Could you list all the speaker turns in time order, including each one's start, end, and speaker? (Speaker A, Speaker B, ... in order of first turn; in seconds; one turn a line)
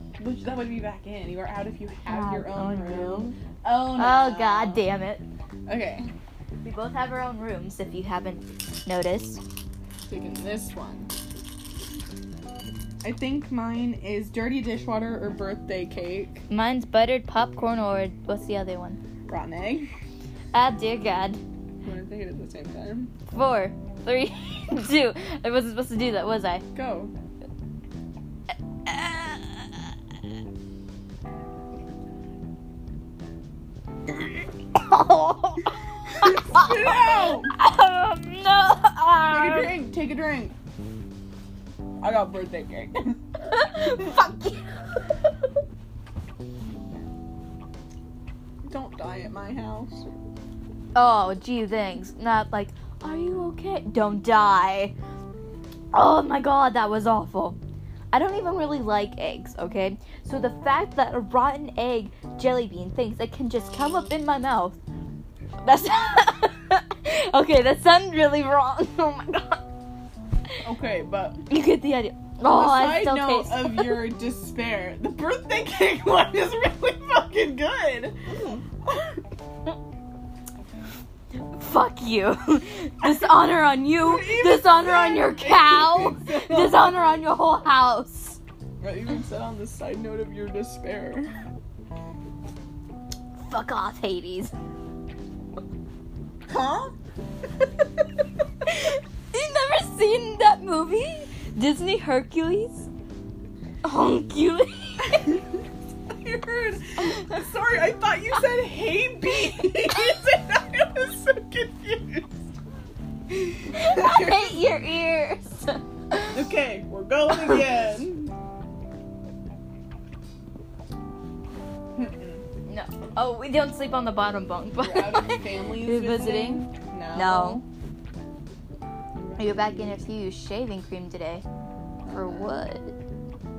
Speaker A: 0.2-4.8
Speaker B: 2.1-3.4
Speaker B: 3.9-5.2
Speaker A: 5.7-6.1
Speaker B: 6.6-9.4
Speaker A: 10.1-11.1
Speaker A: 13.0-16.4
Speaker B: 16.5-19.0
Speaker A: 19.3-19.9
Speaker B: 20.5-21.4
Speaker A: 21.8-23.1
Speaker B: 23.3-26.6
Speaker A: 26.7-27.1
Speaker B: 28.9-29.8
Speaker B: 34.7-39.8
Speaker A: 36.2-37.5
Speaker A: 39.3-40.5
Speaker A: 42.0-43.2
Speaker B: 43.5-45.0
Speaker A: 48.6-50.1
Speaker B: 50.9-54.9
Speaker B: 55.9-57.6
Speaker B: 58.1-64.8
Speaker B: 65.6-69.6
Speaker A: 70.6-71.4
Speaker B: 71.5-74.0
Speaker A: 72.4-78.2
Speaker A: 78.8-79.2
Speaker B: 81.3-88.4
Speaker A: 83.0-83.3
Speaker A: 84.0-86.9
Speaker A: 88.8-91.3
Speaker B: 93.4-94.5
Speaker A: 96.5-97.0
Speaker B: 98.6-102.9
Speaker B: 103.8-105.4
Speaker A: 106.1-112.3
Speaker B: 107.0-107.4
Speaker A: 113.3-114.6
Speaker B: 113.7-116.3
Speaker A: 116.3-118.3
Speaker A: 121.9-122.4
Speaker B: 122.7-127.6
Speaker A: 124.8-127.6
Speaker A: 129.1-130.0
Speaker B: 129.4-131.4
Speaker A: 132.0-132.5
Speaker B: 132.1-132.9